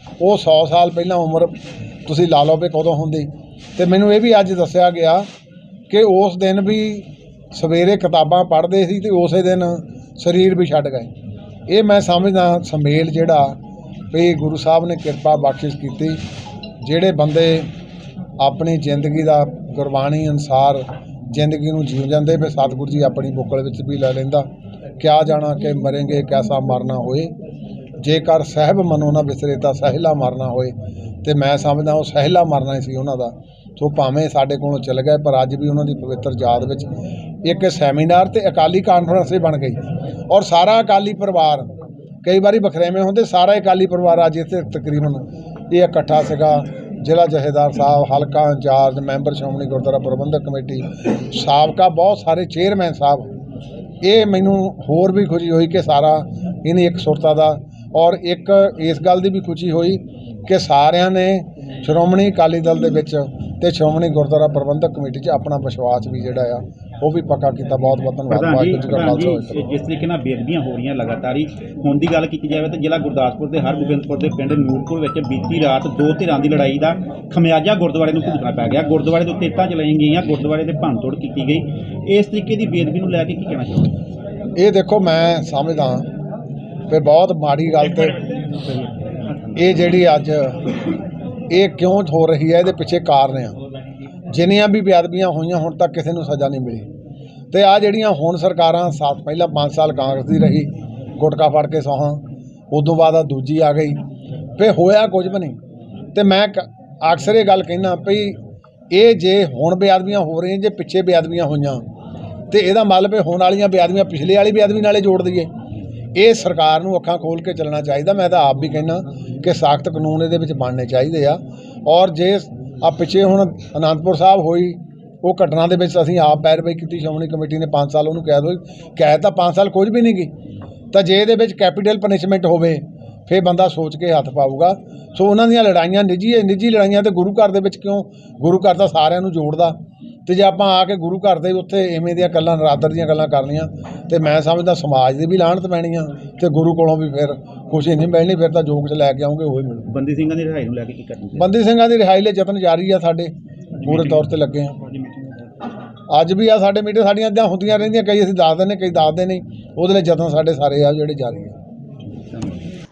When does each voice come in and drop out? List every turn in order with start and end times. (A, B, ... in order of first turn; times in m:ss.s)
0:00.2-0:05.3 A
0:05.9-0:11.1 A
0:11.7-0:13.6 A
0:14.1-0:16.2 A
0:16.8-0:17.7 A
0:18.4-0:24.5 A
0:25.0-0:27.3 A
0:28.0-0:36.9 A
0:37.4-0:41.7 A
0:42.2-0:53.3 A
0:54.0-1:09.6 A
1:08.3-1:24.0 B
1:24.6-1:26.1 A
1:26.9-1:28.2 A
1:28.3-1:29.6 B
1:29.6-1:30.7 A
1:31.5-1:33.6 A
1:34.3-1:36.9 A
1:37.5-1:44.0 A
1:44.6-1:45.6 A
1:46.1-1:51.8 A
1:52.5-1:55.5 A
1:56.2-2:10.3 A
2:10.9-2:29.9 A
2:29.9-2:31.5 B
2:31.4-2:34.8 A
2:33.8-2:34.2 B
2:34.9-2:35.4 B
2:36.1-2:41.6 A
2:42.2-2:42.4 B